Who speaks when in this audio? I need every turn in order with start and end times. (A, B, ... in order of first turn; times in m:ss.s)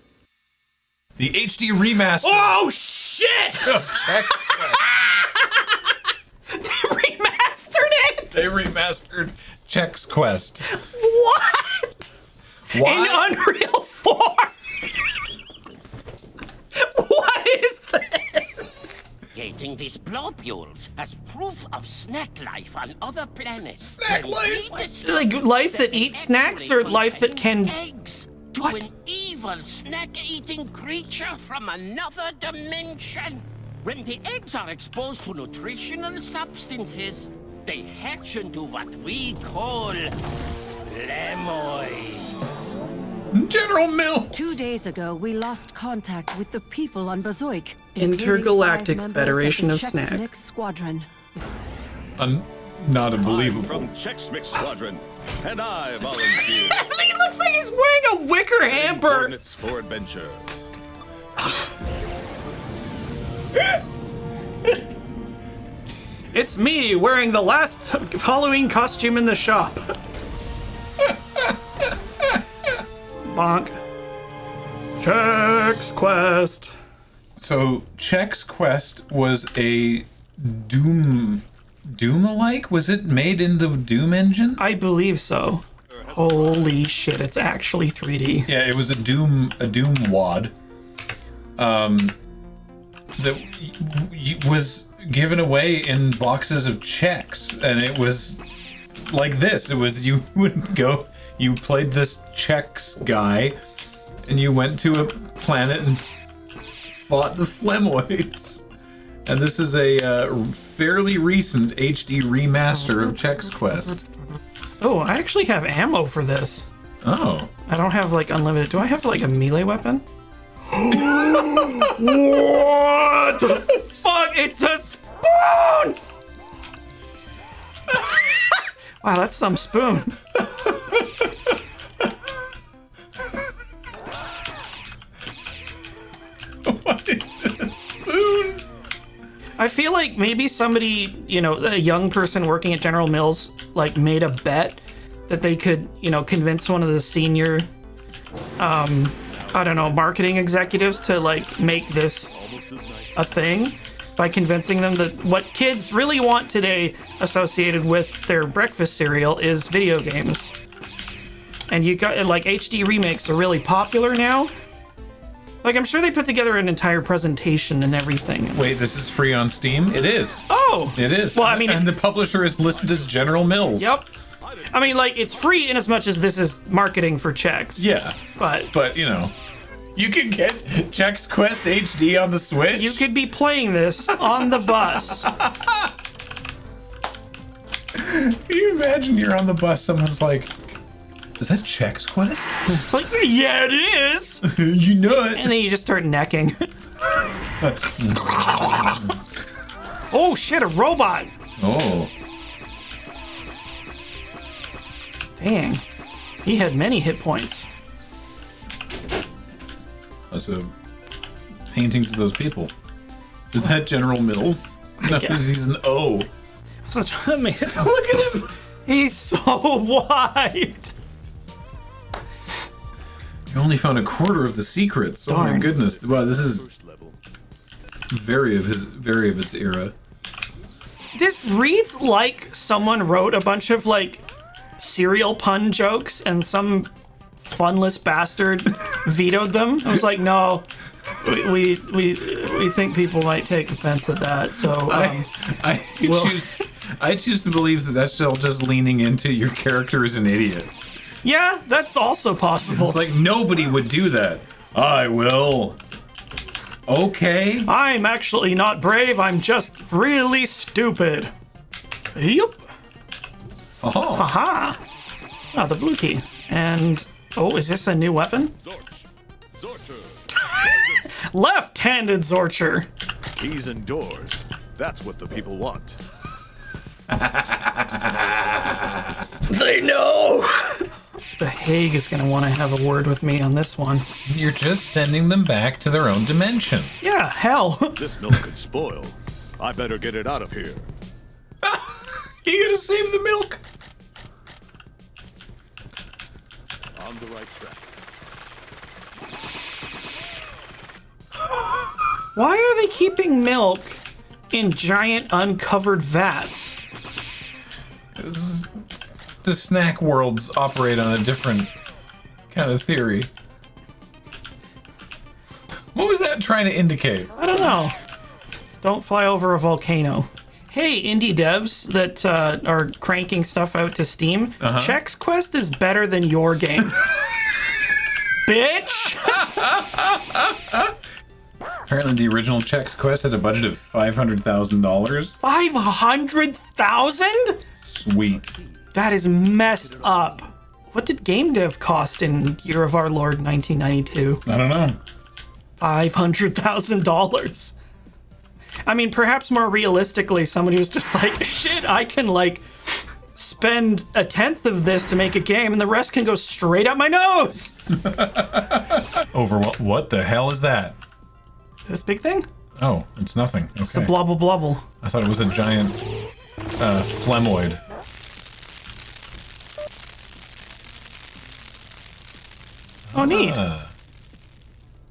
0:01.2-0:02.6 A
0:02.2-0:05.8 B
0:03.6-0:04.8 A
0:06.5-0:08.3 B
0:08.3-0:10.7 A
0:10.7-0:12.1 B
0:12.7-0:13.3 A
0:12.7-0:14.5 B
0:16.7-0:19.0 B
0:19.3-0:40.2 C
0:23.8-0:24.8 A
0:25.0-0:27.8 B
0:40.9-0:42.4 C
0:43.3-0:44.6 A
0:44.3-0:51.1 D
0:48.0-0:50.4 B
0:52.2-0:53.9 A
0:53.2-0:56.9 E
0:56.2-0:59.3 B
0:58.6-1:00.5 E
1:06.3-1:10.0 B
1:13.2-1:13.8 B
1:15.0-1:16.7 B
1:17.4-1:24.6 A
1:24.6-1:28.5 B
1:25.9-1:27.0 E
1:28.5-1:30.5 A
1:31.6-1:32.2 A
1:33.2-1:38.4 A
1:39.1-1:43.6 A
1:44.3-1:46.0 A
1:47.0-1:48.6 A
1:49.3-1:54.0 A
1:54.8-1:56.7 B
1:57.0-1:57.5 A
1:57.7-2:00.0 B
2:00.7-2:06.0 B
2:09.0-2:10.2 B
2:10.4-2:11.3 A
2:16.6-2:18.6 A
2:19.6-2:27.7 B
2:28.6-2:32.4 B
2:29.2-2:31.5 E
2:32.3-2:33.5 E
2:33.2-2:40.6 B
2:41.7-2:44.5 B
2:45.6-2:48.7 B
2:48.5-2:54.0 A
2:50.5-2:51.9 B
2:52.5-2:55.9 E
2:53.8-2:54.1 B
2:54.7-2:58.7 B
2:57.8-2:59.3 A
3:00.0-3:03.1 A
3:02.7-3:05.3 B
3:04.1-3:05.9 A
3:07.9-3:10.5 A
3:11.4-3:12.6 A
3:12.7-3:14.5 B
3:14.4-3:15.6 A
3:15.4-3:16.7 B
3:17.6-3:19.1 A
3:20.1-3:21.3 B
3:21.6-3:22.1 A
3:25.4-3:25.8 B
3:26.4-3:27.7 B
3:30.3-3:30.7 A
3:31.7-3:32.7 A
3:33.5-3:36.3 A
3:35.0-3:35.4 B
3:36.9-3:40.9 B
3:43.5-3:46.7 A
3:45.3-3:45.7 B
3:45.7-3:47.2 E
3:48.1-3:49.9 A
3:51.1-3:54.2 B
3:54.8-4:00.7 B
4:01.2-4:05.3 B
4:04.7-4:10.7 A
4:06.0-4:06.5 B
4:11.2-4:13.0 B
4:12.7-4:15.8 A
4:16.9-4:17.7 A
4:17.6-4:21.3 B
4:22.1-4:22.7 B
4:23.8-4:24.3 A
4:24.2-4:24.8 B
4:25.5-4:28.5 B
4:28.6-4:31.1 E
4:31.0-4:32.9 B
4:33.4-4:36.0 E
4:37.1-4:39.1 A
4:39.5-4:44.1 B
4:44.3-4:47.0 A
4:47.0-4:48.0 B
4:48.0-4:50.9 E
4:51.6-4:53.6 A
4:57.0-4:57.9 E
5:02.3-5:06.8 B
5:08.2-5:11.7 A
5:12.5-5:13.3 A
5:15.9-5:17.3 A
5:17.4-5:18.0 B
5:18.8-5:27.1 B
5:24.6-5:25.0 A
5:28.4-5:29.6 B
5:29.3-5:30.9 A
5:31.9-5:35.4 A
5:35.4-5:37.6 B
5:37.8-5:38.5 A
5:38.9-5:44.4 B
5:39.3-5:40.3 E
5:44.4-5:45.0 A
5:45.8-5:47.7 B
5:48.9-5:57.8 B
5:57.9-6:01.0 A
6:01.9-6:02.5 B
6:02.8-6:04.4 A
6:03.8-6:04.8 B
6:05.0-6:06.0 A
6:06.8-6:07.8 A
6:13.1-6:13.9 A
6:13.1-6:13.6 B